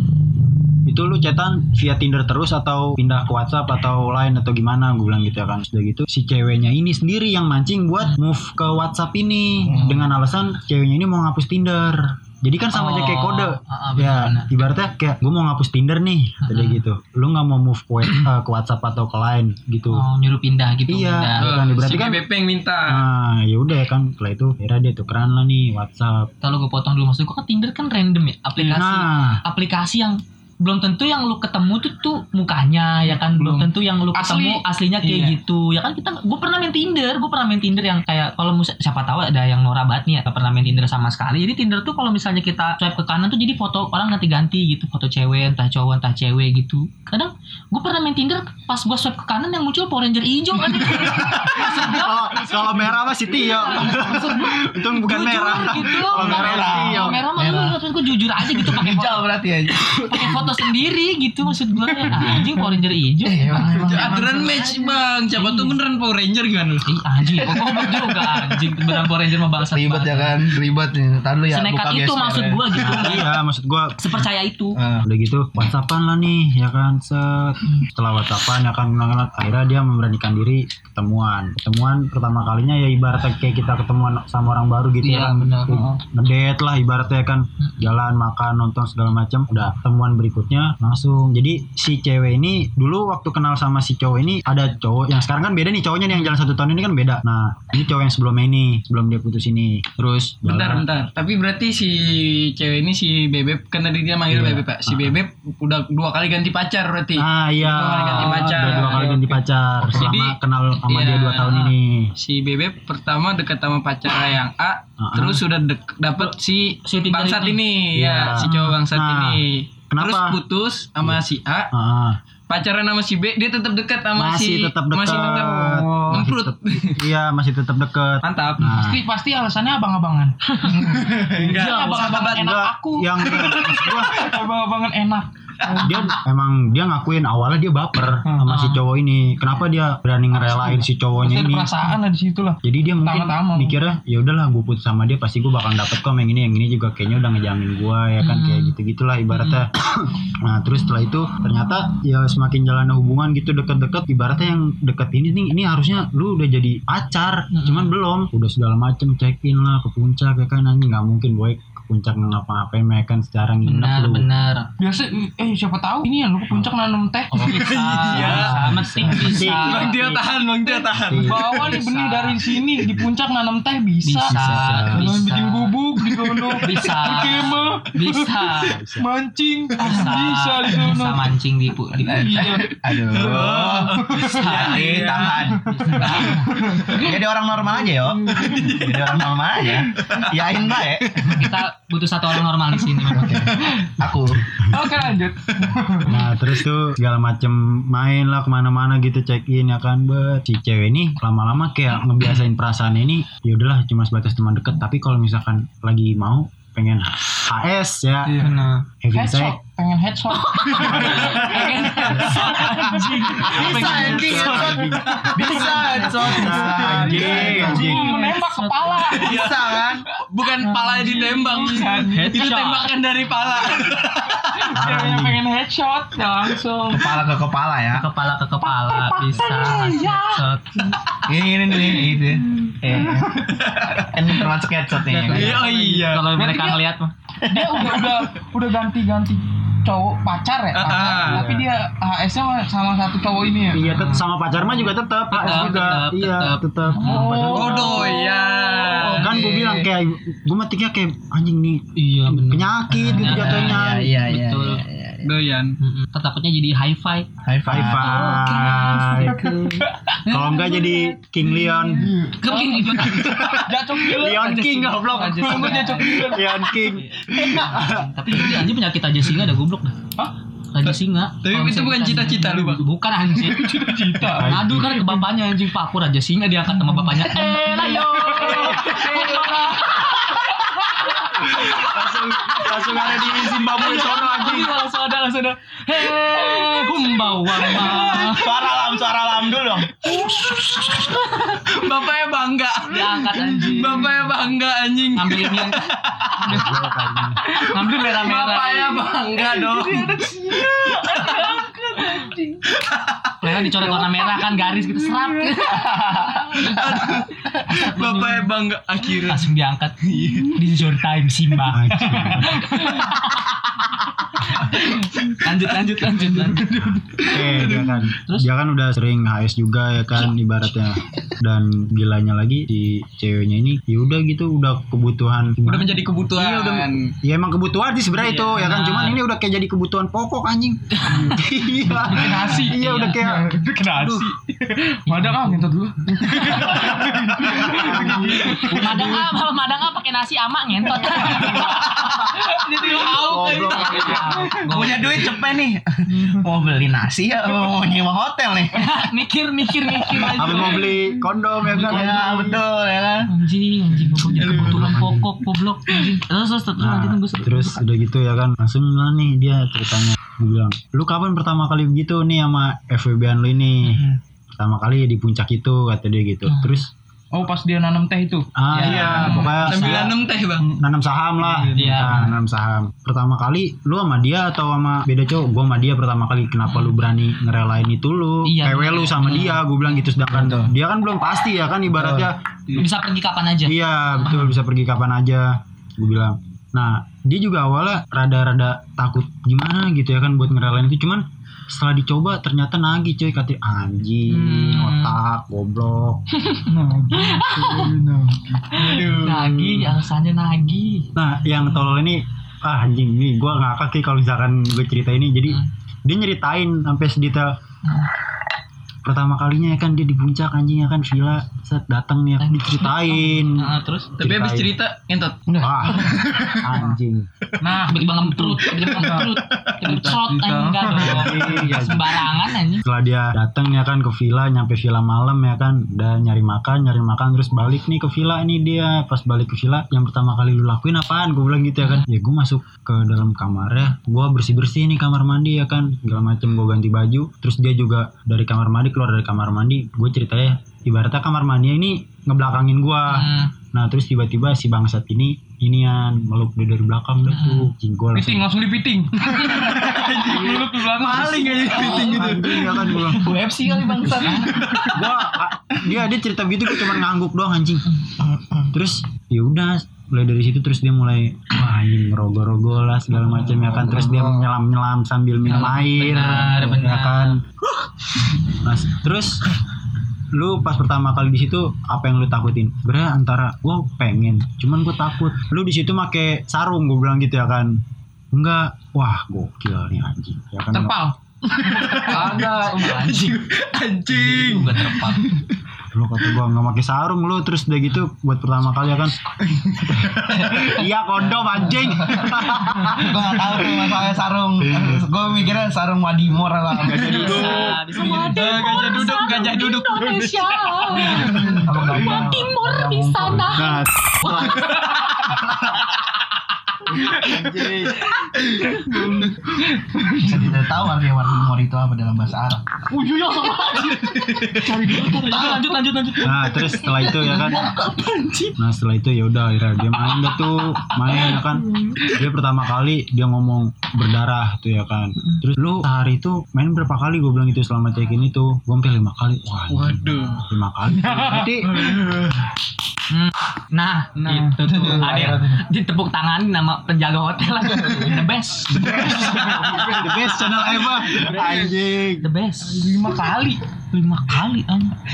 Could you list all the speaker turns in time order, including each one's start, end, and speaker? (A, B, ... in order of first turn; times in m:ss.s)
0:00.8-0:20.1 A
0:09.8-0:10.0 B
0:12.7-0:14.5 C
0:16.4-0:16.8 C
0:19.9-0:21.5 C
0:20.9-0:22.2 A
0:21.4-0:23.0 D
0:22.9-0:26.3 A
0:26.4-0:52.5 C
0:28.6-0:29.4 A
0:33.2-0:35.3 E
0:51.2-0:57.2 A
0:53.6-0:59.3 C
0:53.9-0:54.6 B
0:55.7-1:00.5 B
1:00.0-1:04.2 C
1:02.0-1:02.5 A
1:03.2-1:05.0 B
1:03.8-1:06.9 D
1:05.3-1:05.8 C
1:06.8-1:10.4 C
1:09.7-1:12.9 B
1:11.5-1:13.4 C
1:12.8-1:14.2 A
1:14.0-1:14.8 C
1:14.8-1:15.0 B
1:15.0-1:40.8 A
1:25.0-1:25.8 C
1:25.7-1:26.0 E
1:40.4-1:49.3 D
1:44.3-1:45.2 A
1:47.2-1:52.1 A
1:47.8-1:48.7 C
1:48.4-1:49.3 E
1:49.9-1:50.4 D
1:50.9-2:01.7 D
1:55.0-1:55.4 A
1:56.2-1:57.6 C
1:57.9-2:00.4 A
1:58.4-1:58.7 C
2:01.0-2:02.2 A
2:02.5-2:07.0 D
2:04.2-2:09.0 A
2:05.5-2:06.2 E
2:08.2-2:08.8 D
2:08.6-2:16.1 E
2:10.5-2:10.8 C
2:10.7-2:12.5 D
2:11.4-2:12.2 C
2:12.2-2:14.4 A
2:15.7-2:21.7 A
2:18.2-2:18.5 E
2:18.4-2:18.8 C
2:21.2-2:23.7 E
2:22.6-2:44.2 A
2:28.2-2:28.7 C
2:29.3-2:29.6 C
2:37.5-2:37.9 C
2:43.6-2:44.7 C
2:44.8-2:47.5 E
2:46.5-2:46.7 A
2:47.3-2:50.2 C
2:47.4-2:48.7 D
2:48.1-2:49.9 A
2:49.6-2:51.3 D
2:50.9-2:51.6 A
2:51.2-2:54.4 E
2:51.4-2:52.4 C
2:52.8-2:53.1 A
2:54.0-2:55.7 C
2:54.3-2:55.1 A
2:54.9-3:01.3 E
2:56.4-2:58.8 C
2:58.6-2:59.1 A
2:59.8-3:02.7 C
3:02.0-3:04.6 E
3:02.3-3:06.1 B
3:03.1-3:06.1 D
3:04.1-3:06.9 C
3:05.6-3:07.1 E
3:06.9-3:11.4 B
3:08.0-3:09.0 E
3:08.4-3:08.9 D
3:10.1-3:10.5 D
3:11.3-3:13.5 C
3:13.1-3:14.4 B
3:13.5-3:14.0 E
3:14.7-3:16.2 E
3:16.0-3:28.4 A
3:28.2-3:28.6 E
3:28.3-3:28.9 C
3:29.0-3:29.6 A
3:29.1-3:33.3 E
3:30.3-3:34.8 C
3:31.0-3:38.2 A
3:33.5-3:37.9 B
3:34.9-3:35.4 D
3:35.4-3:39.3 E
3:37.2-3:39.2 C
3:39.1-3:44.7 D
3:39.1-3:40.0 B
3:40.6-3:42.4 E
3:42.0-3:42.9 C
3:44.5-3:47.2 E
3:44.7-3:45.4 A
3:46.9-3:48.1 B
3:47.9-3:51.0 C
3:48.6-3:51.0 E
3:51.2-3:53.4 B
3:52.9-3:53.7 E
3:53.4-3:54.4 D
3:54.0-3:55.7 B
3:55.1-3:56.3 D
3:55.3-3:57.1 C
3:55.6-3:56.8 E
3:57.4-3:58.2 B
3:57.4-4:03.9 E
4:00.7-4:01.5 D
4:01.2-4:01.7 A
4:03.7-4:08.2 A
4:03.9-4:04.2 C
4:05.3-4:07.4 C
4:06.9-4:09.3 E
4:07.5-4:09.3 D
4:07.8-4:08.2 B
4:09.0-4:09.8 B
4:09.2-4:14.1 A
4:12.0-4:14.8 C
4:13.2-4:15.3 B
4:15.2-4:15.8 D
4:15.8-4:21.1 C
4:17.4-4:18.2 B
4:17.6-4:19.5 A
4:19.2-4:20.2 E
4:20.3-4:22.2 A
4:21.7-4:26.8 E
4:22.3-4:23.6 C
4:22.9-4:28.4 A
4:25.1-4:26.3 C
4:27.5-4:30.0 C
4:30.7-4:33.8 C
4:31.4-4:32.9 D
4:33.4-4:35.2 E
4:34.3-4:35.0 A
4:34.4-4:48.5 C
4:36.8-4:41.9 E
4:41.5-4:44.8 A
4:46.0-4:48.6 E
4:48.1-4:50.1 B
4:50.0-4:51.6 E
4:50.1-4:51.6 C
4:51.6-4:56.6 D
4:52.9-4:54.1 C
4:53.4-4:54.1 E
4:55.2-4:55.9 C
4:56.4-4:57.4 A
4:56.5-4:56.9 C
4:57.4-4:59.0 C
4:57.5-5:01.3 D
4:57.5-5:02.6 E
5:01.1-5:01.6 C
5:02.7-5:03.3 D
5:03.4-5:08.4 C
5:03.7-5:06.7 E
5:06.6-5:09.5 D
5:09.1-5:16.7 C
5:10.1-5:10.4 D
5:10.2-5:10.5 E
5:11.7-5:12.6 A
5:12.1-5:13.1 E
5:14.5-5:18.0 E
5:17.2-5:33.5 A
5:18.2-5:18.5 C
5:25.6-5:27.1 D
5:28.2-5:29.2 C
5:30.9-5:31.4 C
5:31.1-5:31.4 E
5:32.0-5:33.2 C
5:32.0-5:39.2 E
5:33.9-5:34.3 C
5:35.1-5:45.4 C
5:36.8-5:39.3 A
5:41.0-5:44.8 E
5:43.2-5:44.1 A
5:44.6-5:49.1 B
5:48.7-5:51.1 C
5:50.1-5:50.5 B
5:50.3-5:52.6 A
5:50.5-5:50.9 E
5:51.7-5:52.2 C
5:51.7-5:53.3 B
5:53.3-5:57.8 C
5:54.4-5:54.9 D
5:54.4-5:55.2 A
5:56.8-6:04.0 A
6:03.8-6:04.2 C
6:04.6-6:06.9 A
6:06.5-6:06.8 C
6:07.3-6:09.6 E
6:08.6-6:10.2 A
6:08.7-6:10.1 C
6:09.1-6:10.7 D
6:10.7-6:22.4 A
6:11.4-6:12.3 E
6:11.7-6:12.3 C
6:18.4-6:19.7 C
6:20.3-6:20.7 B
6:21.9-6:22.3 B
6:22.7-6:24.5 C
6:23.6-6:36.2 A
6:34.3-6:35.2 C
6:36.5-6:38.7 E
6:37.1-6:38.0 C
6:38.7-6:41.1 C
6:38.7-6:39.4 D
6:39.3-6:40.0 A
6:41.2-6:47.6 A
6:49.0-6:54.7 A
6:52.4-6:54.1 C
6:54.2-6:56.6 D
6:55.5-6:56.2 E
6:55.6-6:57.3 A
6:57.6-7:01.6 E
6:57.9-7:02.8 C
7:00.9-7:02.3 A
7:02.8-7:28.5 A
7:23.0-7:23.5 C
7:27.3-7:27.7 C
7:28.1-7:33.1 E
7:29.3-7:32.8 D
7:30.3-7:30.6 A
7:31.7-7:32.3 B
7:31.8-7:33.4 A
7:33.1-7:34.8 B
7:34.0-7:34.7 C
7:34.1-7:37.9 A
7:34.4-7:35.0 D
7:38.2-7:38.7 B
7:38.7-7:47.4 A
7:43.3-7:44.5 B
7:45.5-7:47.4 C
7:48.6-7:49.4 A
7:50.3-7:57.8 A
7:58.3-8:00.9 A
8:00.7-8:02.4 E
8:01.6-8:03.4 C
8:01.8-8:05.4 D
8:02.1-8:02.5 A
8:04.1-8:05.3 C
8:05.9-8:09.2 A
8:09.5-8:10.3 D
8:09.9-8:13.2 A
8:11.3-8:17.7 B
8:16.8-8:21.1 D
8:16.9-8:22.3 E
8:17.0-8:21.4 C
8:21.1-8:24.4 B
8:21.2-8:22.2 A
8:21.9-8:24.6 C
8:23.3-8:24.7 A
8:24.5-8:25.3 E
8:25.3-8:25.6 A
8:27.0-8:30.5 E
8:27.1-8:28.1 A
8:28.9-8:29.3 A
8:30.1-8:32.6 B
8:32.9-8:36.6 C
8:33.4-8:35.5 E
8:34.7-8:35.7 B
8:36.2-8:37.7 A
8:36.6-8:38.5 B
8:38.6-8:51.9 A
8:41.1-8:42.1 E
8:49.7-8:50.4 D
8:51.0-8:52.0 E
8:51.6-8:52.4 D
8:53.1-8:59.6 C
8:54.2-8:55.6 E
8:54.7-8:55.5 B
8:58.7-9:02.3 A
8:58.8-9:01.8 E
9:02.2-9:03.1 C
9:02.6-9:03.6 E
9:03.9-9:04.9 C